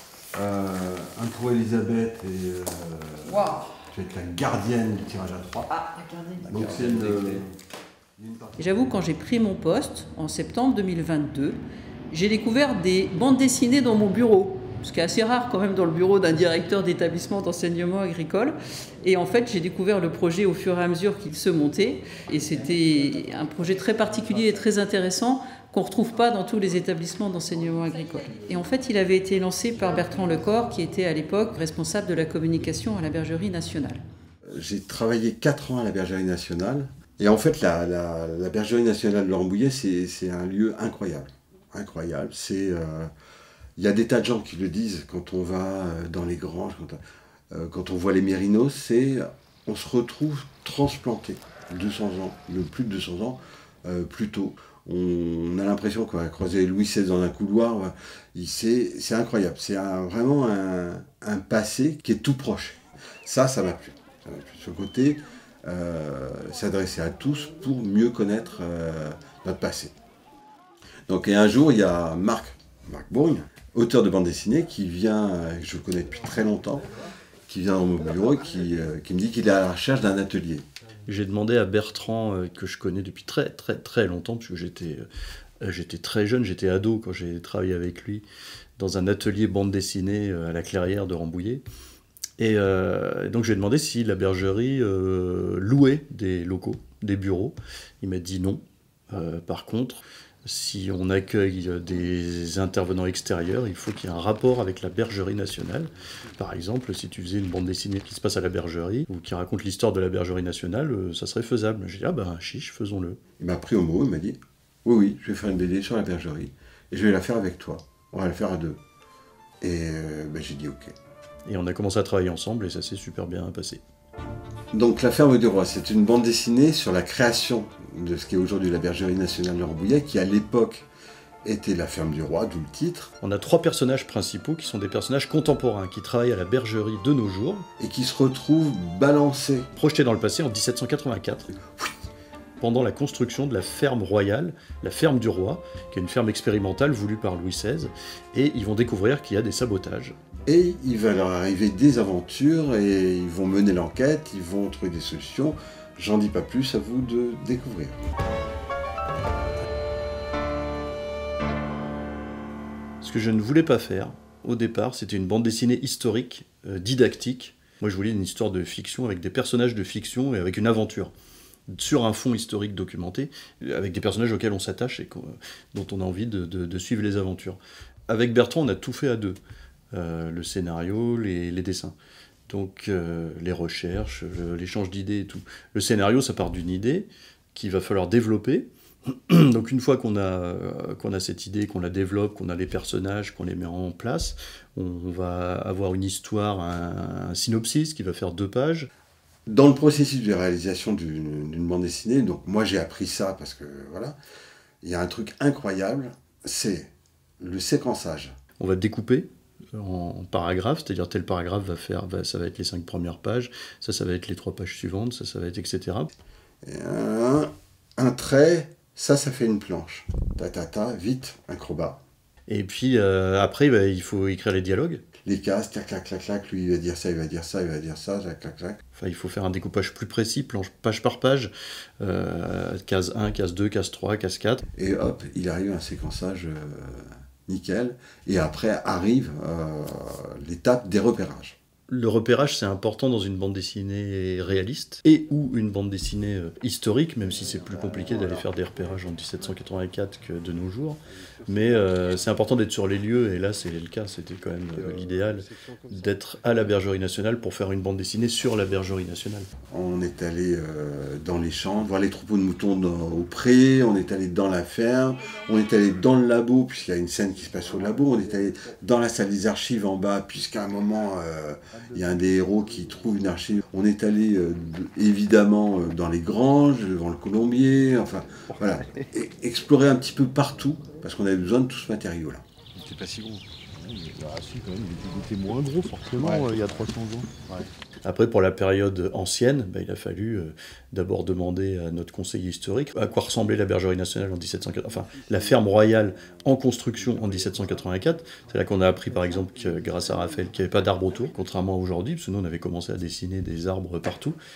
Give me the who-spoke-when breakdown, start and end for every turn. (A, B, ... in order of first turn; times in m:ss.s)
0:00.3-0:05.7 A
0:03.3-0:03.7 B
0:05.7-0:06.9 B
0:06.4-0:07.5 A
0:08.2-0:08.6 A
0:08.6-0:34.0 B
0:34.5-0:43.1 A
0:43.8-0:47.0 A
0:47.5-1:09.9 A
1:11.1-1:16.8 A
1:17.5-1:20.6 A
1:21.1-1:25.1 C
1:25.6-1:28.2 C
1:28.8-1:31.6 C
1:32.4-1:53.2 C
1:53.4-1:58.8 A
1:59.6-2:00.9 A
2:01.4-2:03.8 C
2:04.7-2:10.9 A
2:11.4-2:13.1 A
2:13.2-2:17.7 C
2:17.8-2:19.7 A
2:19.8-2:21.5 C
2:22.6-2:30.2 C
2:30.4-2:37.9 A
2:43.0-2:51.1 C
2:51.7-2:59.4 C
2:59.9-3:01.9 C
3:02.5-3:18.9 C
3:19.5-3:24.2 A
3:24.8-3:28.3 A
3:28.6-3:36.1 C
3:36.6-3:42.0 A
3:42.5-3:45.0 C
3:45.2-3:48.8 A
3:49.0-3:54.6 C
3:54.8-4:01.6 A
4:01.9-4:19.5 C
4:14.8-4:15.6 A
4:19.7-4:43.3 A
4:44.4-4:47.3 C
4:46.2-4:46.6 A
4:48.0-5:04.4 C